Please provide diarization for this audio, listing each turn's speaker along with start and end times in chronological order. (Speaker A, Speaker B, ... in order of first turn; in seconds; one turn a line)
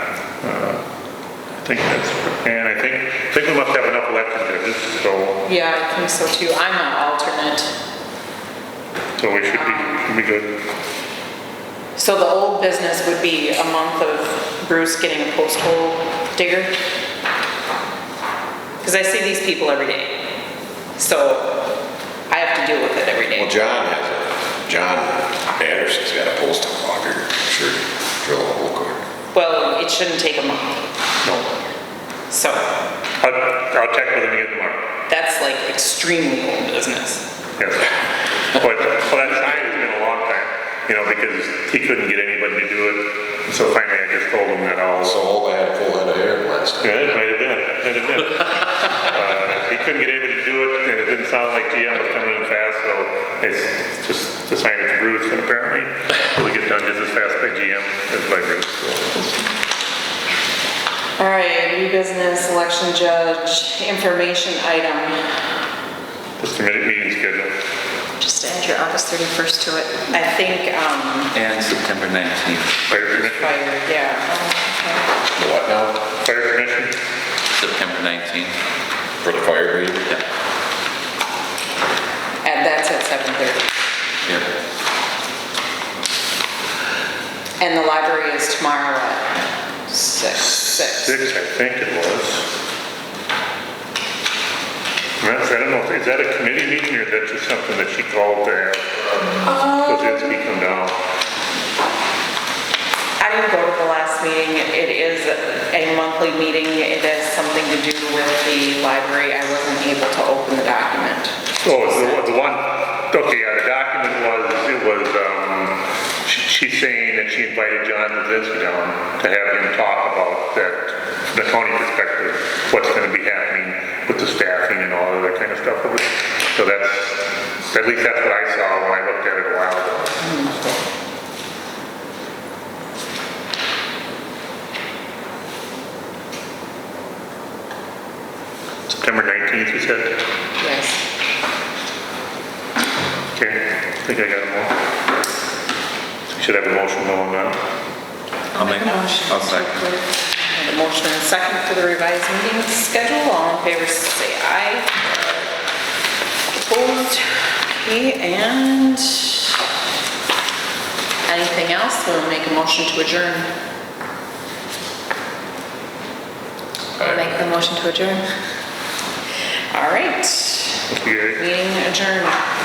Speaker A: 0.4-0.8
Speaker A: 1.6-5.5
Speaker B: 5.5-7.7
Speaker A: 9.2-10.6
Speaker B: 9.5-10.0
Speaker B: 12.0-16.8
Speaker B: 18.8-20.2
Speaker B: 21.0-21.6
Speaker B: 22.3-23.6
Speaker C: 23.3-29.0
Speaker B: 29.3-30.9
Speaker A: 31.2-31.5
Speaker B: 32.3-32.6
Speaker A: 33.2-34.8
Speaker B: 35.1-37.2
Speaker A: 37.6-37.9
Speaker A: 38.5-45.2
Speaker C: 45.0-46.9
Speaker A: 46.8-59.3
Speaker B: 61.2-65.2
Speaker A: 66.4-67.5
Speaker B: 68.2-71.3
Speaker D: 71.3-73.2
Speaker A: 72.9-73.5
Speaker B: 73.3-75.1
Speaker C: 75.4-76.0
Speaker A: 76.2-76.9
Speaker D: 77.5-78.5
Speaker C: 79.2-80.0
Speaker B: 82.4-83.7
Speaker B: 87.6-89.3
Speaker B: 89.9-91.2
Speaker A: 90.6-92.5
Speaker A: 95.2-101.0
Speaker B: 99.4-100.3
Speaker B: 103.2-112.0
Speaker A: 111.6-130.3
Speaker B: 130.2-130.7
Speaker A: 138.9-140.2
Speaker B: 140.6-141.0
Speaker A: 143.3-144.7
Speaker A: 146.3-147.6
Speaker B: 148.6-155.0
Speaker D: 148.6-149.9
Speaker B: 156.5-159.5
Speaker B: 161.3-163.5
Speaker B: 167.0-168.2
Speaker B: 169.7-172.4
Speaker A: 170.9-171.4